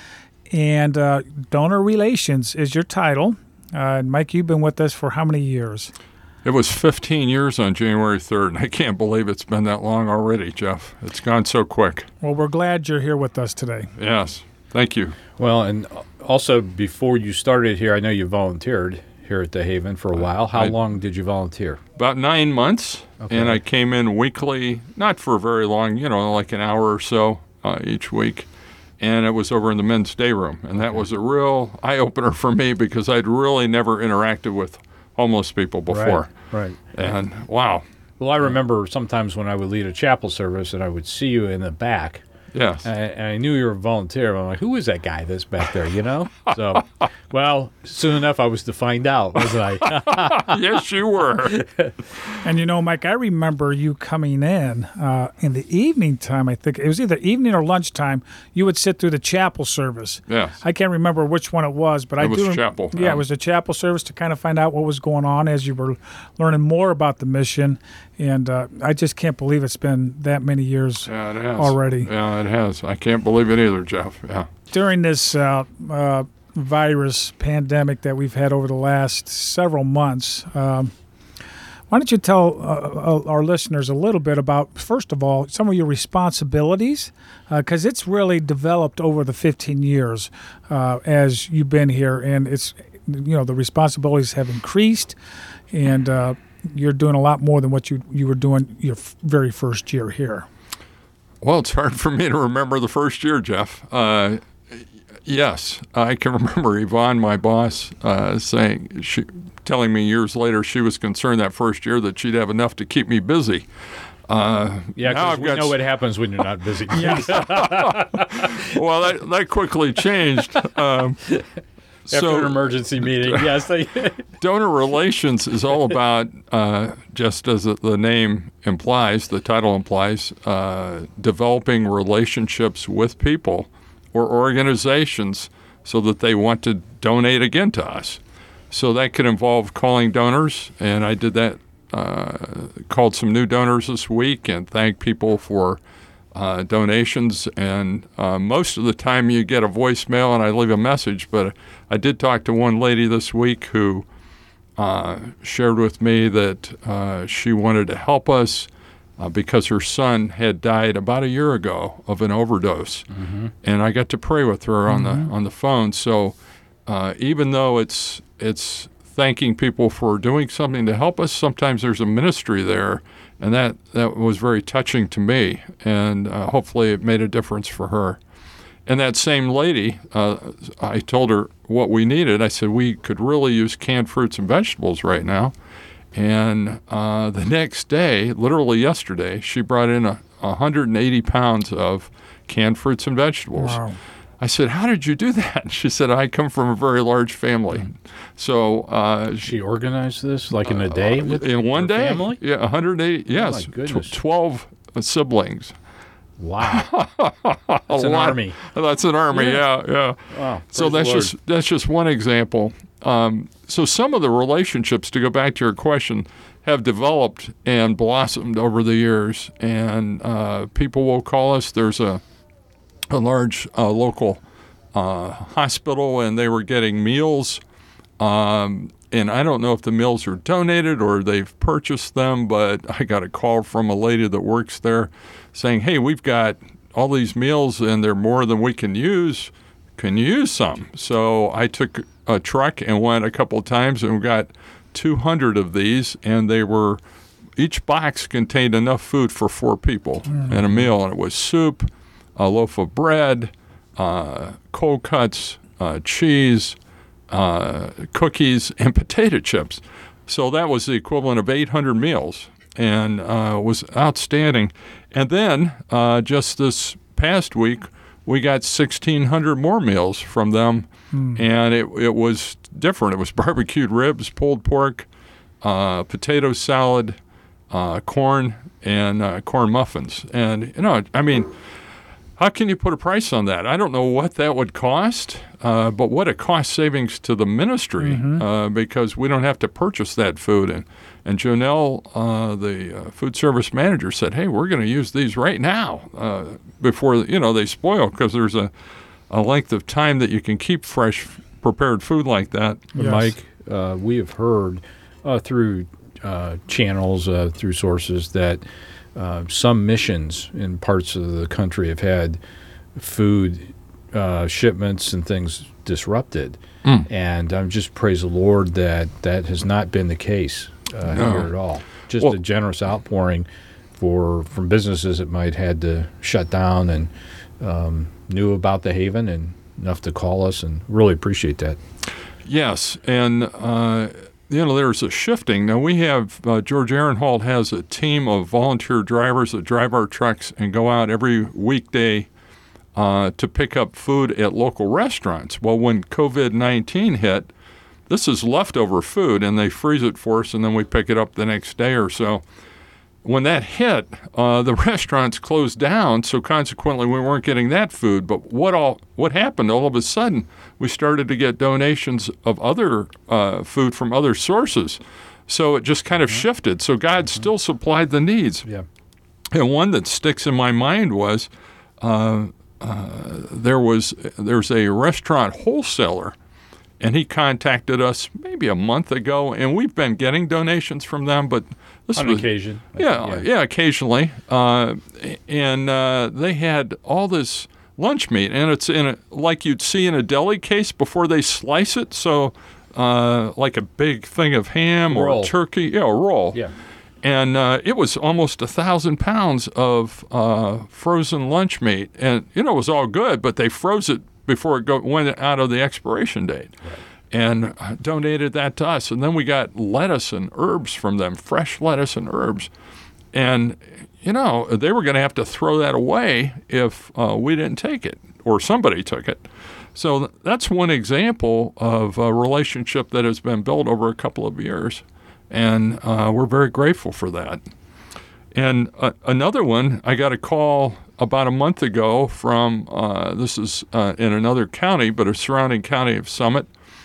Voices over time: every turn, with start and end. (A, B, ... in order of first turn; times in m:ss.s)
0:00.5-0:05.9 A
0:06.4-0:12.1 B
0:12.2-0:13.9 A
0:14.0-0:15.2 B
0:15.4-0:21.8 C
0:20.2-0:20.7 B
0:22.0-0:28.5 B
0:23.2-0:23.6 C
0:29.0-0:36.3 B
0:30.8-0:31.0 C
0:35.9-0:36.8 C
0:36.9-0:37.8 B
0:38.2-0:42.2 C
0:42.5-0:42.9 B
0:42.8-0:50.6 C
0:50.0-0:51.6 B
0:51.5-0:51.9 C
0:52.3-1:12.1 A
1:00.3-1:00.6 B
1:02.2-1:03.2 B
1:11.0-1:14.5 B
1:14.7-1:20.9 A
1:21.9-1:35.2 A
1:35.7-1:40.4 A
1:41.4-1:53.7 B
1:54.3-1:55.8 B
1:55.0-1:58.5 C
1:57.0-2:01.4 B
2:02.1-2:03.5 B
2:02.1-2:04.2 C
2:04.4-2:18.2 B
2:18.7-2:25.8 B
2:26.3-2:34.0 B
2:34.8-2:43.1 B
2:43.1-2:43.5 C
2:43.6-2:46.4 B
2:44.9-2:45.3 A
2:46.9-2:58.2 B
2:58.8-3:05.5 B
3:06.1-3:13.8 B
3:13.6-3:14.0 A
3:14.4-3:19.5 B
3:19.4-3:22.4 C
3:20.6-3:25.7 B
3:23.3-3:24.2 C
3:26.4-3:26.9 C
3:26.6-3:42.2 B
3:27.9-3:28.6 C
3:29.3-3:29.6 C
3:30.3-3:31.3 C
3:43.1-3:44.4 B
3:44.9-3:47.6 B
3:48.2-4:07.0 B
4:07.6-4:16.7 B
4:17.3-4:35.1 B
4:31.1-4:31.4 A
4:35.6-4:37.2 B
4:37.7-4:41.5 B
4:42.4-4:58.7 B
4:48.0-4:48.4 A
4:59.3-5:02.9 B
5:02.9-5:03.3 A
5:02.9-5:08.6 C
5:09.1-5:12.4 C
5:13.0-5:31.8 C
5:21.1-5:21.5 B
5:32.4-5:42.3 B
5:42.9-5:47.5 B
5:48.1-5:52.4 B
5:53.2-6:08.6 B
6:09.5-6:11.5 B
6:12.0-6:16.3 B
6:17.0-6:36.6 B
6:22.1-6:23.5 C
6:35.1-6:35.5 C
6:37.2-6:46.7 B
6:47.3-6:52.7 B
6:53.3-7:07.6 B
7:08.5-7:16.7 B